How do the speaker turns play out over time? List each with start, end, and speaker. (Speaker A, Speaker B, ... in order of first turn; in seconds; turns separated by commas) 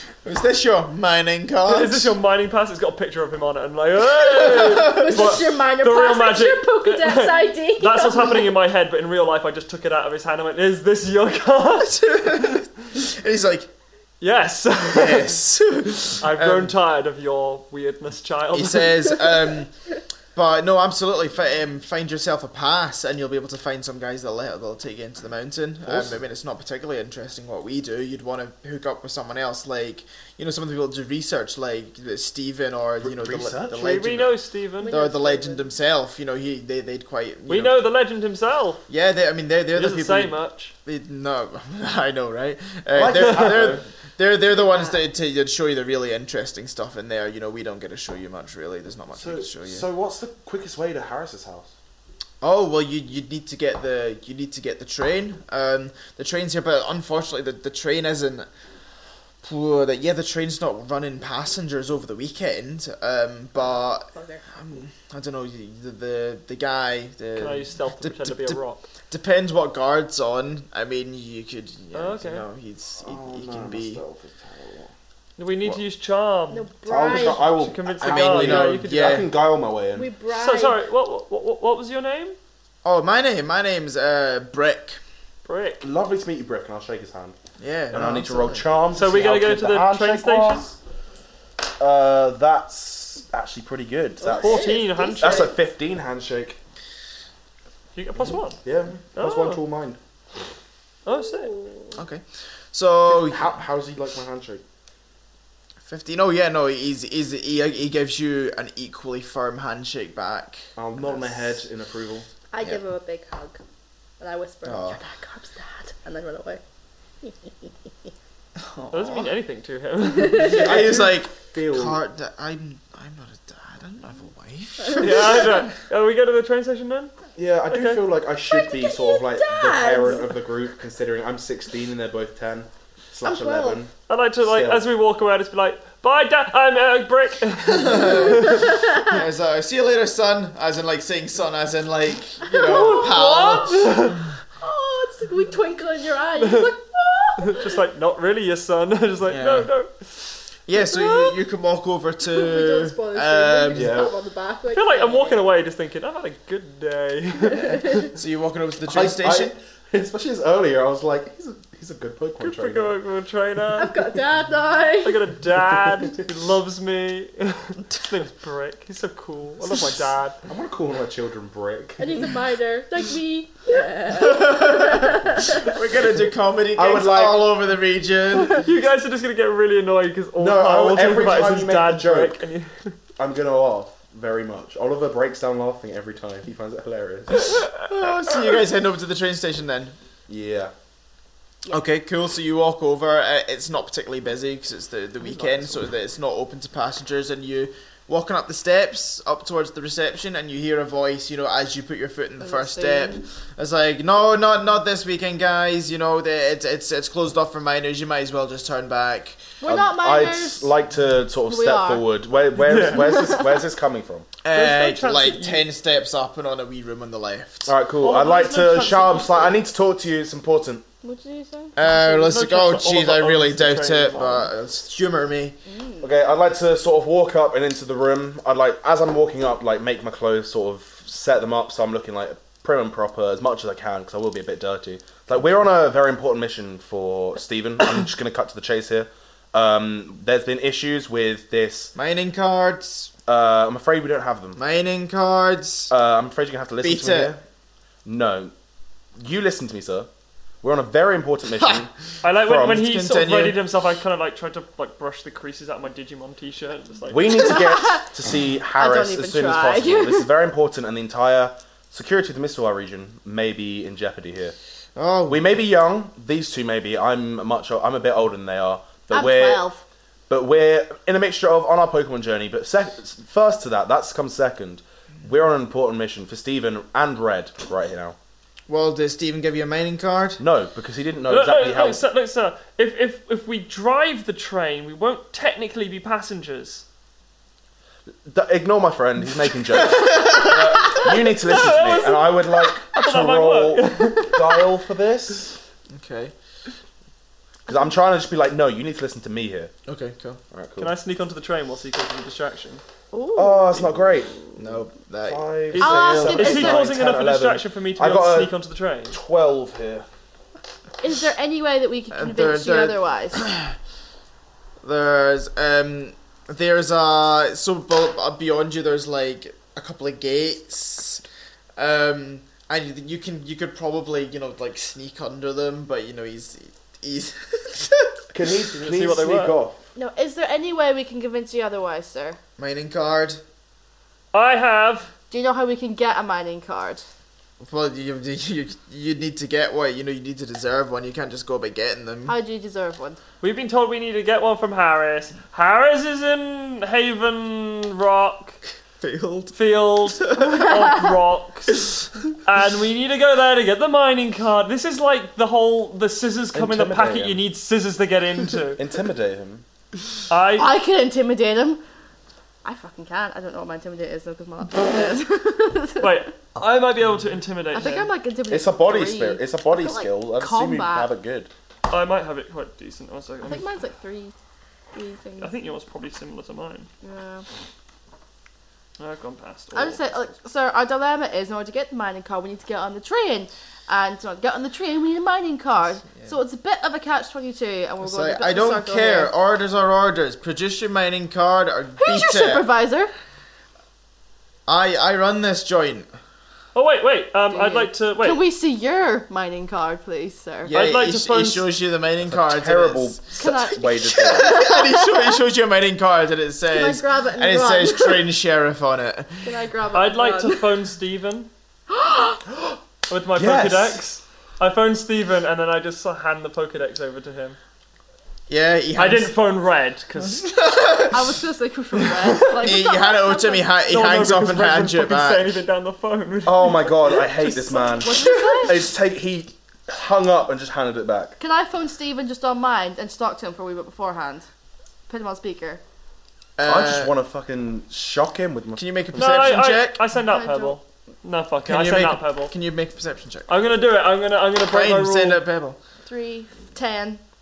Speaker A: 0.2-2.1, Speaker B: 1.7-12.6, Speaker A: 4.4-4.8, Speaker C: 4.6-8.5, Speaker A: 11.8-13.7, Speaker B: 14.2-15.4, Speaker A: 14.9-16.7, Speaker B: 16.2-19.2, Speaker A: 18.5-19.7, Speaker A: 20.3-34.3, Speaker D: 25.8-26.2, Speaker D: 33.0-34.3, Speaker B: 33.7-34.9, Speaker C: 34.8-35.7, Speaker A: 34.9-37.8, Speaker B: 37.5-38.8, Speaker A: 38.9-49.9, Speaker B: 39.7-40.7, Speaker D: 42.9-43.8, Speaker C: 44.6-45.0, Speaker D: 49.1-51.7, Speaker A: 52.4-58.5, Speaker A: 59.4-68.6, Speaker C: 63.6-64.5, Speaker B: 67.3-68.8, Speaker A: 69.1-74.0, Speaker B: 71.9-72.4, Speaker D: 73.0-74.9, Speaker B: 75.4-79.2, Speaker C: 76.5-77.7, Speaker D: 76.8-80.1, Speaker A: 78.0-79.3, Speaker C: 79.9-80.8, Speaker B: 80.3-82.4, Speaker A: 82.8-85.0, Speaker B: 85.4-85.8, Speaker D: 85.8-87.3, Speaker A: 87.6-88.7, Speaker D: 87.9-90.8, Speaker B: 88.9-90.7, Speaker D: 91.8-96.6, Speaker C: 94.2-95.6, Speaker B: 94.3-95.5, Speaker B: 97.9-98.6, Speaker D: 98.6-100.0, Speaker B: 99.1-99.6, Speaker B: 101.0-101.5, Speaker C: 101.1-102.0, Speaker A: 101.9-103.5, Speaker D: 103.1-104.6, Speaker A: 105.8-111.5, Speaker D: 110.8-112.3, Speaker C: 112.5-113.6, Speaker C: 114.2-116.6, Speaker A: 114.6-115.0, Speaker C: 117.2-117.7, Speaker A: 118.6-119.3, Speaker B: 118.9-120.9, Speaker A: 120.3-125.7, Speaker D: 120.4-122.0, Speaker B: 125.0-127.1, Speaker D: 127.3-133.9, Speaker B: 127.7-128.0, Speaker C: 128.5-130.3, Speaker C: 133.2-133.8, Speaker B: 134.1-138.8, Speaker D: 134.4-134.8, Speaker A: 137.7-144.2, Speaker C: 138.4-139.1, Speaker C: 142.4-143.6, Speaker B: 142.6-144.2, Speaker C: 144.6-147.8, Speaker B: 146.4-146.7, Speaker B: 147.4-150.4, Speaker A: 149.2-149.7, Speaker A: 150.7-154.0, Speaker C: 150.9-151.3, Speaker C: 152.2-155.4, Speaker D: 153.7-154.1, Speaker B: 154.7-158.1, Speaker C: 157.4-158.1, Speaker A: 158.1-159.5, Speaker D: 158.9-162.9, Speaker B: 162.4-164.0, Speaker C: 163.8-165.2, Speaker B: 165.0-170.3, Speaker D: 165.5-166.2, Speaker D: 170.4-172.3, Speaker C: 172.0-175.6, Speaker A: 174.1-178.6, Speaker D: 176.0-177.5, Speaker B: 178.4-182.9, Speaker D: 180.4-182.4, Speaker D: 183.2-187.6, Speaker A: 187.8-189.9, Speaker D: 190.3-190.7, Speaker A: 191.7-209.6, Speaker B: 195.2-195.7, Speaker C: 202.4-203.2, Speaker C: 209.6-210.7, Speaker D: 209.6-214.3, Speaker C: 211.4-212.1, Speaker B: 212.6-213.3, Speaker C: 212.9-213.5, Speaker A: 214.4-217.7, Speaker B: 214.5-215.7, Speaker D: 217.7-220.8, Speaker B: 218.0-219.6, Speaker C: 221.0-221.7, Speaker A: 221.8-225.6, Speaker B: 221.8-224.5, Speaker C: 225.7-226.0, Speaker D: 226.0-241.9, Speaker A: 241.9-243.1, Speaker D: 243.3-244.6, Speaker A: 244.6-245.9, Speaker D: 245.9-247.4, Speaker A: 246.8-247.3, Speaker D: 248.0-248.5, Speaker D: 249.2-250.1, Speaker D: 250.6-252.9, Speaker B: 252.2-257.6, Speaker A: 252.6-253.6, Speaker D: 257.1-264.5, Speaker C: 257.4-258.0, Speaker C: 258.8-260.3, Speaker A: 264.9-265.4, Speaker D: 265.3-269.6, Speaker C: 269.1-269.8, Speaker D: 270.3-278.1, Speaker A: 278.7-280.4, Speaker D: 280.4-282.0, Speaker B: 281.3-286.8, Speaker D: 288.3-295.6, Speaker A: 290.0-290.5, Speaker B: 291.0-294.7, Speaker A: 295.9-296.3, Speaker D: 297.6-299.7, Speaker A: 299.9-300.4, Speaker D: 300.5-300.9, Speaker B: 300.8-302.8, Speaker C: 303.1-304.1, Speaker D: 303.3-304.3, Speaker A: 304.6-305.8, Speaker D: 305.2-308.5, Speaker B: 305.7-309.2, Speaker C: 305.8-306.8, Speaker D: 309.1-310.1, Speaker C: 311.0-313.4, Speaker A: 312.1-313.7, Speaker A: 314.8-321.2, Speaker A: 321.8-328.2, Speaker D: 328.3-329.8, Speaker B: 328.8-329.6, Speaker C: 329.9-332.4, Speaker A: 332.6-333.4, Speaker B: 334.3-335.1, Speaker C: 335.3-337.0, Speaker A: 337.6-342.4, Speaker C: 342.3-343.2, Speaker B: 343.4-348.6, Speaker A: 349.0-350.5, Speaker B: 349.5-358.8, Speaker D: 356.5-357.4, Speaker D: 358.8-359.6, Speaker B: 360.3-360.7, Speaker C: 360.6-361.8, Speaker C: 362.6-366.3, Speaker B: 366.0-368.1, Speaker C: 367.7-371.1, Speaker D: 368.5-371.5, Speaker B: 371.9-373.6, Speaker C: 373.4-374.3, Speaker C: 374.9-375.5, Speaker B: 375.4-376.9, Speaker C: 377.0-377.4, Speaker B: 379.0-380.1, Speaker C: 379.7-389.3, Speaker A: 388.0-392.7, Speaker C: 392.0-393.1, Speaker A: 394.7-396.1, Speaker B: 396.7-398.4, Speaker C: 397.5-400.7, Speaker A: 400.6-403.6, Speaker B: 400.7-401.7, Speaker D: 402.3-404.7, Speaker C: 403.4-405.3, Speaker A: 404.1-409.4, Speaker C: 406.7-408.2, Speaker C: 409.4-410.7, Speaker B: 409.9-411.5, Speaker C: 411.9-412.4, Speaker B: 413.1-417.6, Speaker D: 413.3-414.0, Speaker A: 418.5-419.3, Speaker B: 418.9-420.5, Speaker A: 420.4-421.3, Speaker C: 421.1-423.7, Speaker A: 422.4-425.5, Speaker B: 423.9-427.7, Speaker D: 426.4-431.4, Speaker C: 427.7-428.8, Speaker C: 431.4-434.4, Speaker C: 435.1-435.8, Speaker A: 436.6-437.1, Speaker D: 436.6-438.8, Speaker A: 438.8-440.0, Speaker B: 439.1-442.5, Speaker C: 440.2-440.8, Speaker A: 441.6-443.5, Speaker B: 443.5-445.4, Speaker A: 444.6-445.8, Speaker C: 446.0-447.2